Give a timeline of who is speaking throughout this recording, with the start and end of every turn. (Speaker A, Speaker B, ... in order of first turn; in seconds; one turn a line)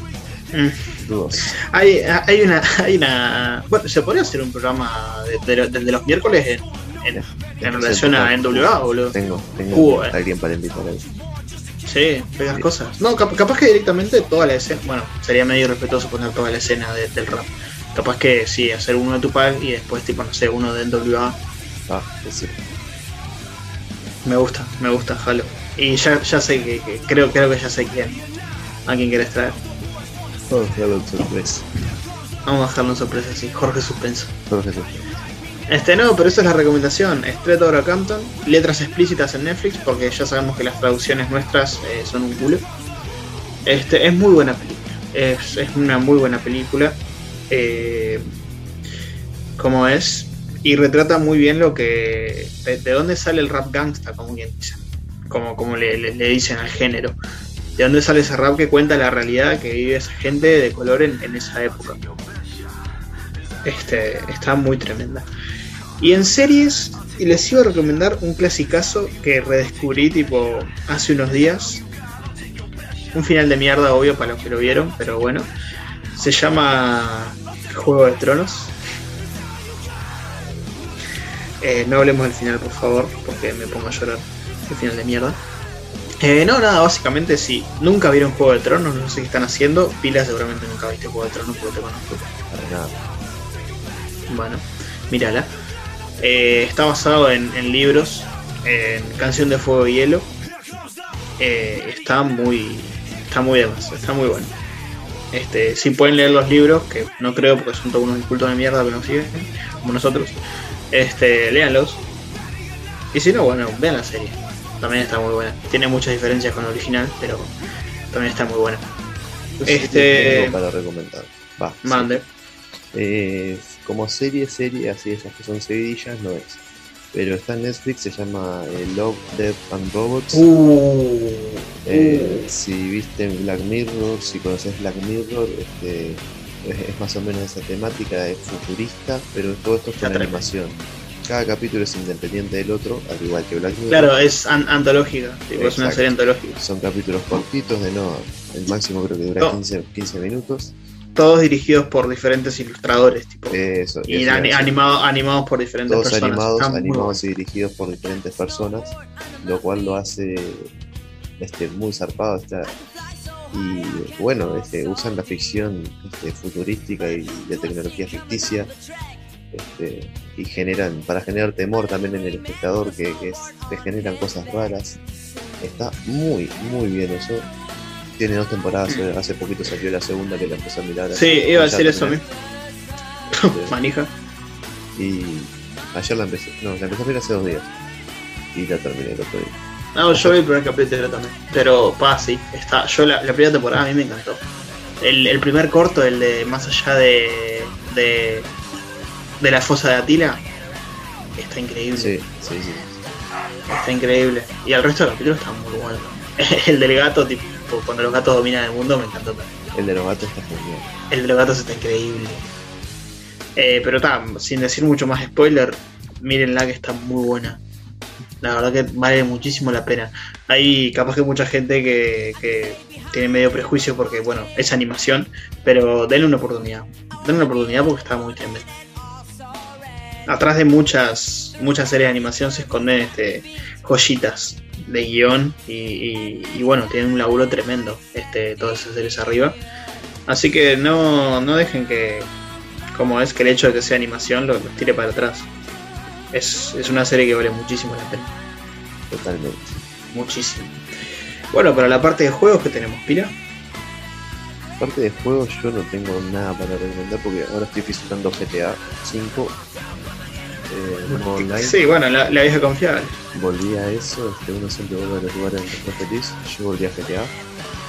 Speaker A: 0.5-0.8
Speaker B: 1.0-1.6
Speaker A: 1.7-9.1
Speaker B: 7.1-11.1
Speaker A: 9.7-10.1
Speaker A: 11.8-21.4
Speaker B: 21.9-22.6
Speaker A: 24.2-28.2
Speaker A: 28.9-29.6
Speaker B: 30.5-31.7
Speaker A: 32.5-34.3
Speaker B: 34.5-35.0
Speaker A: 35.7-42.6
Speaker A: 43.6-47.0
Speaker A: 47.5-48.2
Speaker A: 49.6-57.1
Speaker A: 57.8-62.0
Speaker A: 63.6-65.2
Speaker A: 66.0-71.8
Speaker A: 73.1-75.5
Speaker A: 76.1-78.7
Speaker A: 81.6-85.4
Speaker A: 86.2-92.1
Speaker B: 92.1-93.0
Speaker A: 94.3-95.5
Speaker A: 96.2-100.3
Speaker A: 101.4-104.5
Speaker A: 105.3-110.4
Speaker A: 110.9-112.0
Speaker A: 113.1-117.5
Speaker A: 118.1-118.8
Speaker B: 119.6-122.2
Speaker A: 119.7-120.5
Speaker A: 121.8-122.2
Speaker B: 122.9-126.6
Speaker B: 127.1-130.4
Speaker A: 130.3-132.5
Speaker B: 131.8-144.1
Speaker A: 140.0-140.4
Speaker A: 143.9-146.6
Speaker B: 145.6-150.7
Speaker A: 151.2-157.2
Speaker B: 153.5-154.8
Speaker B: 155.9-160.7
Speaker B: 161.4-162.7
Speaker B: 163.5-168.7
Speaker B: 169.5-175.0
Speaker B: 175.6-177.5
Speaker B: 178.2-182.2
Speaker A: 181.1-182.2
Speaker B: 183.3-183.7
Speaker A: 183.3-184.1
Speaker B: 184.9-187.7
Speaker B: 188.5-189.5
Speaker A: 189.9-194.4
Speaker A: 195.0-198.5
Speaker A: 199.4-200.4
Speaker A: 201.4-202.2
Speaker B: 202.0-203.0
Speaker A: 203.7-209.5
Speaker B: 209.7-210.9
Speaker A: 211.1-212.5
Speaker A: 213.6-217.6
Speaker A: 218.4-228.7
Speaker A: 230.3-239.6
Speaker A: 240.3-242.3
Speaker A: 242.9-245.5
Speaker A: 246.3-248.3
Speaker B: 249.1-249.8
Speaker A: 250.1-250.8
Speaker A: 251.5-253.3
Speaker B: 254.8-259.6
Speaker B: 260.7-261.8
Speaker A: 261.1-263.1
Speaker B: 263.3-267.3